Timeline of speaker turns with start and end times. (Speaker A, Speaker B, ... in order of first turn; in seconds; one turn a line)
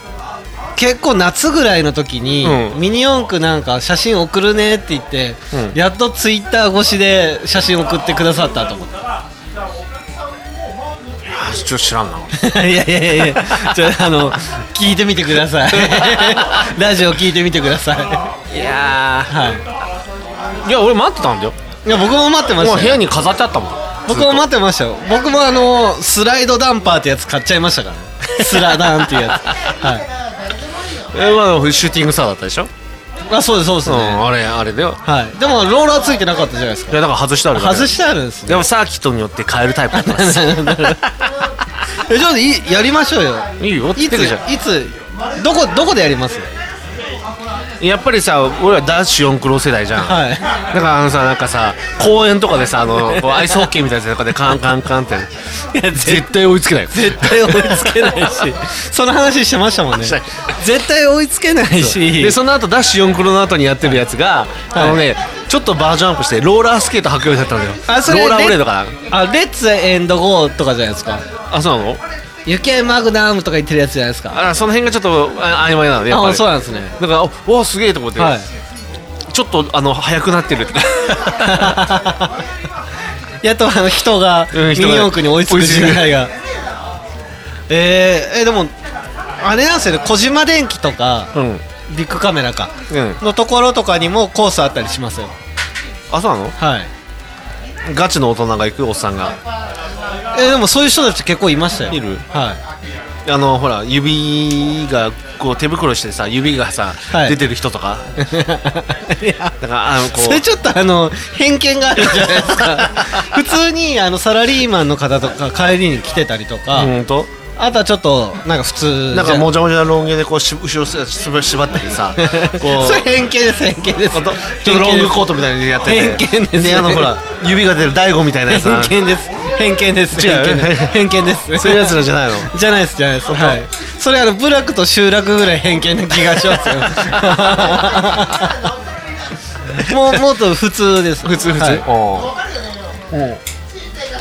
Speaker A: 0.8-8.9
Speaker B: 2.4-2.8
Speaker B: 11.3-12.3
Speaker A: 12.3-18.3
Speaker B: 13.2-13.8
Speaker B: 15.7-16.7
Speaker B: 18.5-19.4
Speaker A: 19.3-19.6
Speaker B: 20.6-21.6
Speaker A: 21.8-23.0
Speaker B: 22.6-24.5
Speaker A: 24.1-30.0
Speaker B: 28.4-29.5
Speaker B: 31.1-32.7
Speaker A: 33.3-34.2
Speaker B: 33.8-35.0
Speaker A: 35.0-37.0
Speaker B: 36.9-41.1
Speaker A: 37.5-38.6
Speaker A: 39.9-41.0
Speaker A: 41.9-46.5
Speaker B: 43.6-44.4
Speaker B: 47.8-55.3
Speaker A: 50.0-50.5
Speaker A: 55.7-56.3
Speaker B: 55.9-58.4
Speaker A: 56.9-62.4
Speaker B: 59.9-60.4
Speaker B: 61.8-69.0
Speaker A: 64.7-65.0
Speaker A: 67.9-71.2
Speaker B: 71.5-72.0
Speaker A: 72.5-74.4
Speaker B: 74.3-78.3
Speaker A: 76.1-77.0
Speaker A: 78.2-78.5
Speaker B: 79.3-81.8
Speaker A: 81.4-82.4
Speaker A: 83.4-86.3
Speaker B: 84.5-86.2
Speaker A: 87.7-88.7
Speaker A: 89.4-91.3
Speaker B: 91.3-91.6
Speaker A: 91.9-95.3
Speaker B: 92.9-93.2
Speaker B: 96.1-96.5
Speaker A: 96.6-96.9
Speaker B: 97.8-99.4
Speaker A: 100.3-102.6
Speaker B: 101.9-102.2
Speaker B: 103.2-108.1
Speaker A: 107.1-107.4
Speaker A: 108.2-109.5
Speaker B: 109.6-110.4
Speaker A: 110.1-116.9
Speaker B: 112.2-113.3
Speaker B: 116.7-117.3
Speaker A: 117.5-119.5
Speaker B: 119.1-123.1
Speaker A: 122.2-125.2
Speaker B: 124.1-129.0
Speaker A: 125.8-127.1
Speaker A: 128.5-138.6
Speaker B: 130.1-132.5
Speaker B: 133.3-133.6
Speaker A: 139.8-141.8
Speaker B: 141.2-142.3
Speaker B: 143.1-143.4